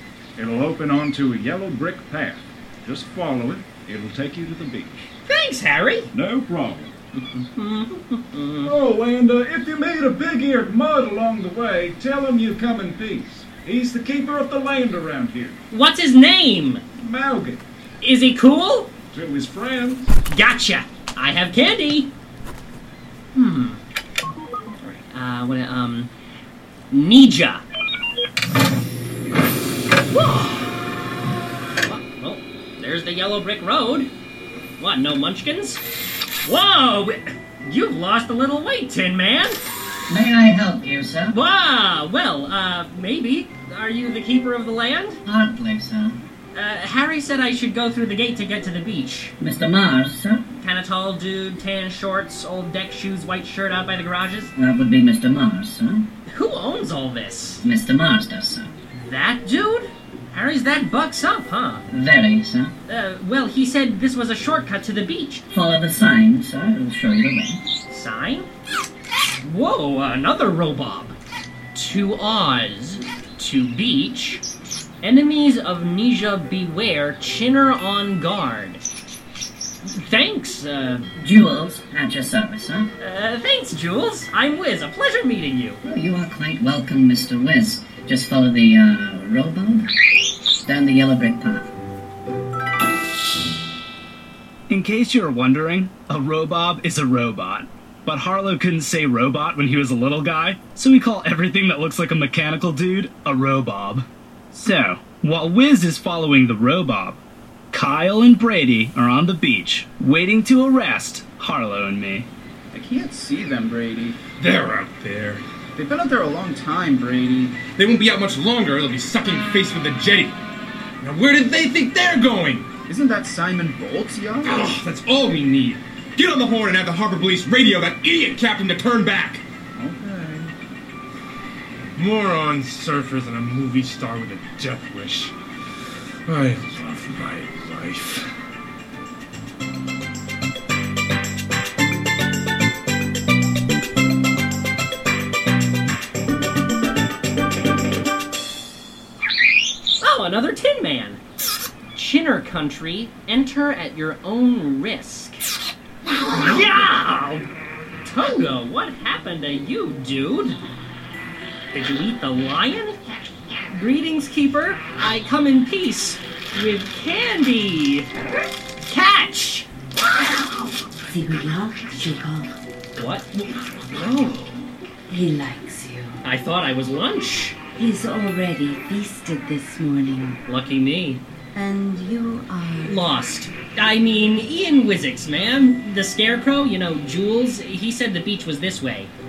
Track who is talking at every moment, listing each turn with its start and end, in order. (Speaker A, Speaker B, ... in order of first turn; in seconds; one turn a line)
Speaker A: 0.4-5.1
Speaker B: 5.3-6.1
Speaker A: 6.1-6.9
Speaker B: 7.2-8.7
Speaker A: 8.6-15.6
Speaker B: 15.7-16.8
Speaker A: 17.0-17.6
Speaker B: 18.0-18.9
Speaker A: 19.1-20.1
Speaker B: 20.3-22.1
Speaker B: 23.4-23.8
Speaker B: 25.1-26.1
Speaker B: 26.9-27.6
Speaker B: 30.1-30.7
Speaker B: 31.8-34.1
Speaker B: 34.8-35.8
Speaker B: 36.4-39.6
Speaker C: 40.1-41.4
Speaker B: 41.3-45.2
Speaker C: 45.2-46.2
Speaker B: 46.5-49.3
Speaker C: 49.4-50.4
Speaker B: 50.6-54.5
Speaker C: 54.5-56.1
Speaker B: 56.3-57.6
Speaker C: 57.6-58.7
Speaker B: 59.0-61.9
Speaker C: 61.9-62.7
Speaker B: 62.9-65.4
Speaker C: 65.5-67.6
Speaker B: 67.9-68.5
Speaker B: 69.4-71.2
Speaker B: 71.7-74.4
Speaker B: 75.0-78.8
Speaker B: 79.9-81.1
Speaker C: 81.2-82.9
Speaker B: 83.0-85.8
Speaker C: 85.8-89.9
Speaker C: 90.5-91.7
Speaker D: 94.7-107.2
Speaker D: 107.7-112.3
Speaker E: 112.7-114.2
Speaker F: 114.4-115.4
Speaker E: 115.8-117.6
Speaker F: 117.7-120.4
Speaker F: 121.0-122.7
Speaker E: 122.9-124.7
Speaker F: 124.4-129.4
Speaker A: 129.8-130.5
Speaker F: 132.0-135.3
Speaker F: 136.3-138.2
Speaker B: 150.0-151.2
Speaker B: 151.9-155.4
Speaker B: 156.3-157.5
Speaker B: 158.0-160.6
Speaker B: 161.7-163.0
Speaker B: 163.7-168.1
Speaker B: 168.9-169.7
Speaker G: 171.1-172.5
Speaker B: 173.0-174.5
Speaker G: 175.1-176.2
Speaker B: 176.2-177.6
Speaker G: 177.8-180.4
Speaker B: 180.5-181.2
Speaker G: 181.5-183.0
Speaker B: 182.8-189.1